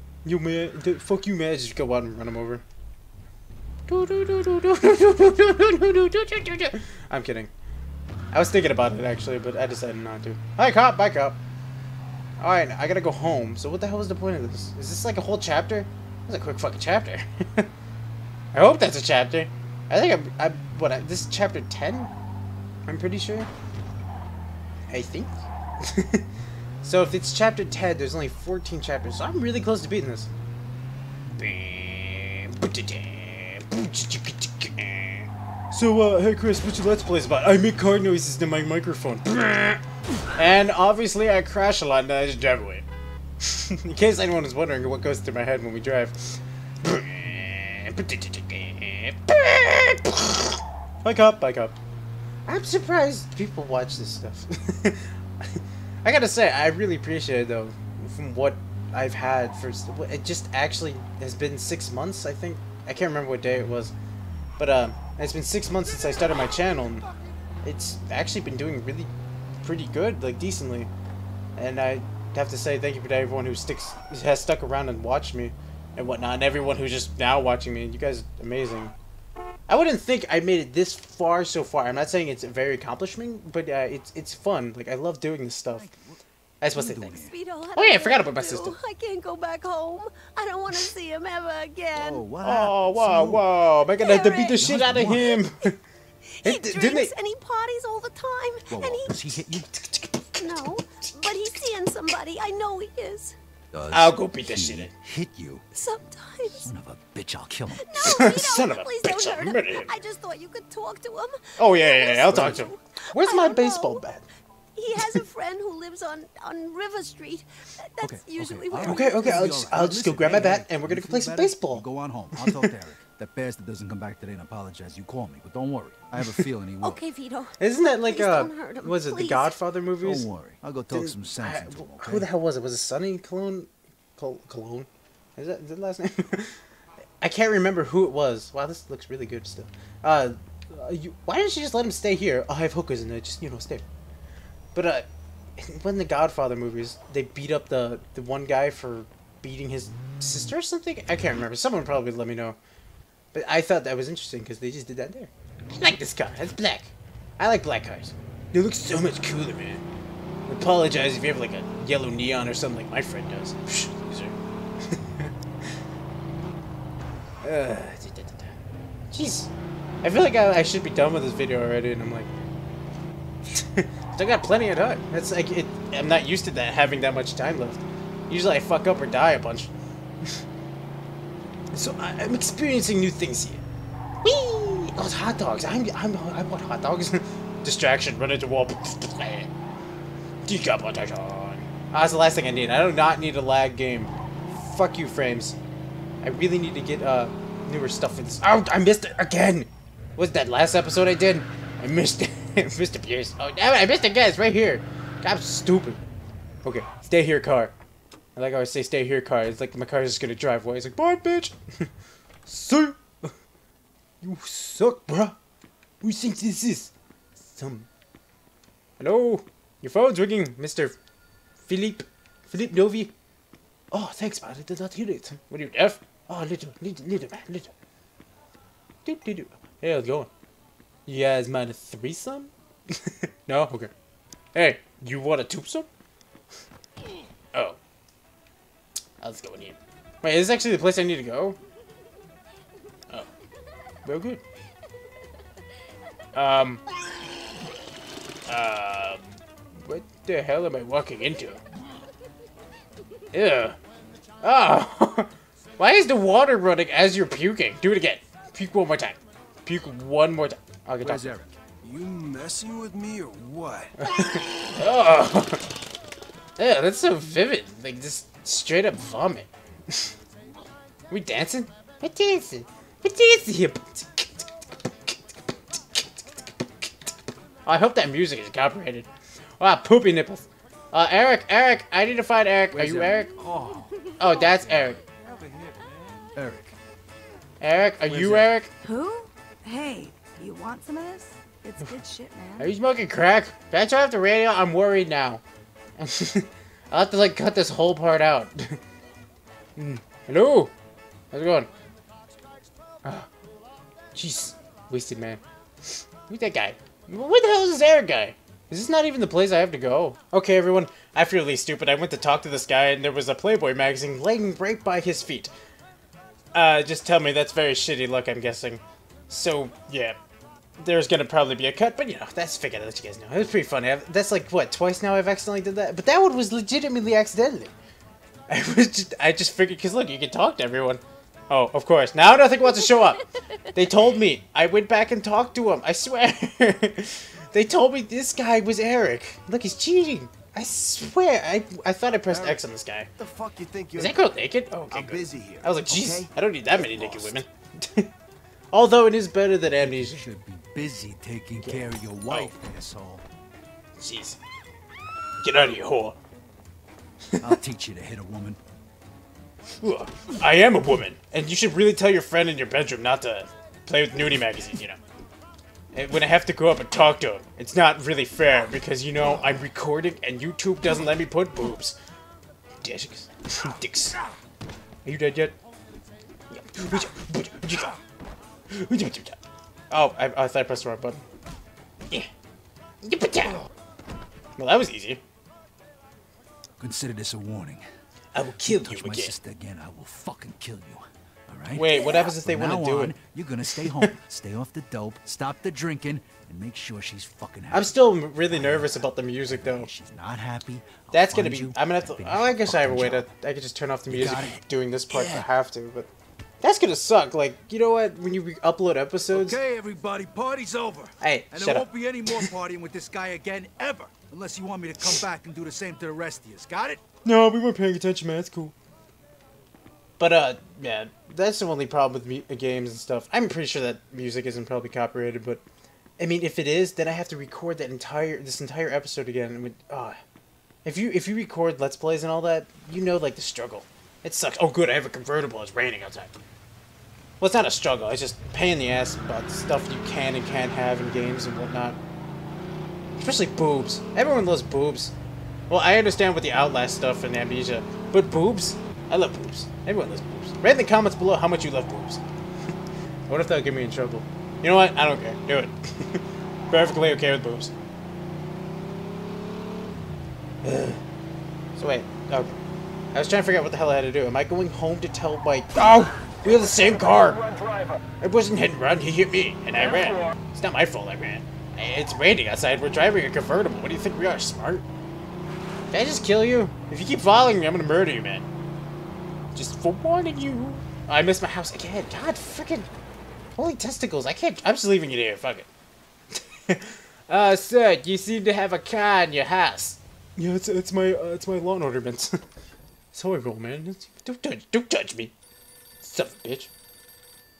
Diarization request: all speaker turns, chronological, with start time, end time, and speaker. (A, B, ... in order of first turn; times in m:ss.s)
0:00.2-0:02.6 A
0:03.9-0:07.5 A
0:08.3-0:11.4 A
0:12.4-0:17.7 A
0:18.5-0:22.1 A
0:22.9-0:23.5 A
0:24.9-0:26.2 A
0:26.8-0:30.3 A
0:31.3-0:39.8 A
0:40.3-0:42.8 A
0:43.4-0:51.8 A
0:52.5-1:03.9 A
1:04.6-1:07.1 A
1:07.6-1:10.9 A
1:11.6-1:18.9 A
1:19.7-1:25.9 A
1:25.7-1:26.2 B
1:26.6-1:27.1 A
1:26.7-1:27.4 B
1:27.0-1:32.2 C
1:27.8-1:28.8 A
1:31.9-1:33.4 B
1:32.4-1:35.8 A
1:34.0-1:34.6 C
1:34.6-1:35.4 B
1:36.4-1:37.1 A
1:36.5-1:39.0 C
1:38.7-1:39.7 B
1:39.8-1:41.7 A
1:40.4-1:43.3 C
1:43.7-1:45.6 B
1:43.9-1:44.9 A
1:45.7-1:46.7 C
1:46.5-1:47.9 B
1:47.9-1:52.6 C
1:48.0-1:49.9 A
1:51.6-1:54.2 A
1:52.3-1:52.7 B
1:53.3-1:54.0 C
1:54.8-1:57.4 C
1:54.9-1:55.2 A
1:56.6-1:56.9 D
1:58.0-1:58.6 D
1:58.0-2:07.0 B
1:58.4-1:58.9 C
1:58.8-2:01.8 A
2:02.4-2:02.7 A
2:06.8-2:09.6 C
2:07.6-2:10.3 A
2:10.0-2:12.3 B
2:10.9-2:16.6 A
2:17.2-2:23.8 A
2:24.7-2:25.1 A
2:25.6-2:32.6 A
2:33.3-2:39.8 A
2:40.5-2:44.3 A
2:44.9-2:45.3 A
2:47.4-2:48.6 A
2:49.1-2:49.5 A
2:50.0-2:52.3 A
2:53.5-2:59.7 A
3:01.7-3:03.6 A
3:04.2-3:09.5 A
3:10.4-3:15.6 A
3:16.2-3:26.0 A
3:26.6-3:27.7 A
3:28.3-3:31.9 A
3:32.4-3:33.3 A
3:34.2-3:35.4 A
3:36.0-3:37.9 A
3:39.0-3:41.0 A
3:41.6-3:43.1 A
3:43.9-3:47.7 A
3:49.0-3:50.3 A
3:51.1-3:53.9 A
3:54.5-3:55.9 A
3:57.5-3:57.8 A
3:59.2-4:01.6 A
4:04.0-4:04.4 A
4:06.3-4:06.8 A
4:08.5-4:11.6 A
4:13.3-4:13.8 A
4:14.4-4:21.3 A
4:21.0-4:21.5 B
4:21.8-4:23.9 E
4:24.0-4:25.6 A
4:26.6-4:30.1 A
4:31.1-4:34.5 A
4:35.7-4:36.4 A
4:37.6-4:39.1 A
4:39.6-4:43.3 A
4:42.7-4:44.9 B
4:44.2-4:45.0 A
4:45.2-4:46.3 E
4:46.3-4:46.7 B
4:47.6-4:48.7 A
4:48.1-4:48.5 B
4:48.8-4:52.7 D
4:52.6-4:55.4 A
4:56.0-4:58.8 A
4:59.8-5:00.7 A
5:01.3-5:01.7 A
5:03.0-5:03.3 A
5:04.1-5:05.4 A
5:06.0-5:15.5 A
5:16.5-5:20.2 A
5:20.8-5:27.7 A
5:28.5-5:43.1 A
5:42.3-5:42.6 E
5:43.2-5:44.2 E
5:43.9-5:48.1 A
5:44.9-5:46.3 E
5:47.0-5:47.2 E
5:48.7-5:50.2 A
5:49.8-5:53.2 B
5:51.6-5:52.5 A
5:54.0-5:54.4 A
5:55.4-5:56.2 A
5:57.4-5:58.6 B
5:59.8-6:05.0 A
6:05.9-6:12.0 A
6:12.8-6:14.2 A
6:15.0-6:15.5 A
6:16.5-6:17.9 A
6:18.7-6:19.4 A
6:19.9-6:21.2 A
6:23.0-6:23.6 A
6:24.6-6:25.2 A
6:26.8-6:27.8 B
6:28.3-6:29.3 A
6:28.6-6:43.3 B
6:31.7-6:33.2 A
6:33.7-6:34.1 A
6:37.7-6:39.9 A
6:41.1-6:46.1 A
6:44.1-6:45.5 B
6:46.6-6:49.6 A
6:49.3-6:57.0 B
6:51.2-6:52.5 A
6:57.2-6:58.7 A
7:00.2-7:05.6 A
7:06.2-7:10.2 A
7:10.8-7:16.4 A
7:17.4-7:22.0 A
7:23.2-7:25.1 A
7:25.7-7:32.2 A
7:33.3-7:37.7 A
7:40.6-7:41.0 A
7:41.8-7:42.6 A
7:43.1-7:47.4 A
7:48.2-7:54.8 A
7:55.9-7:58.5 A
7:59.5-8:02.9 A
8:03.6-8:05.7 A
8:06.6-8:12.3 A
8:13.1-8:15.3 A
8:16.0-8:16.7 A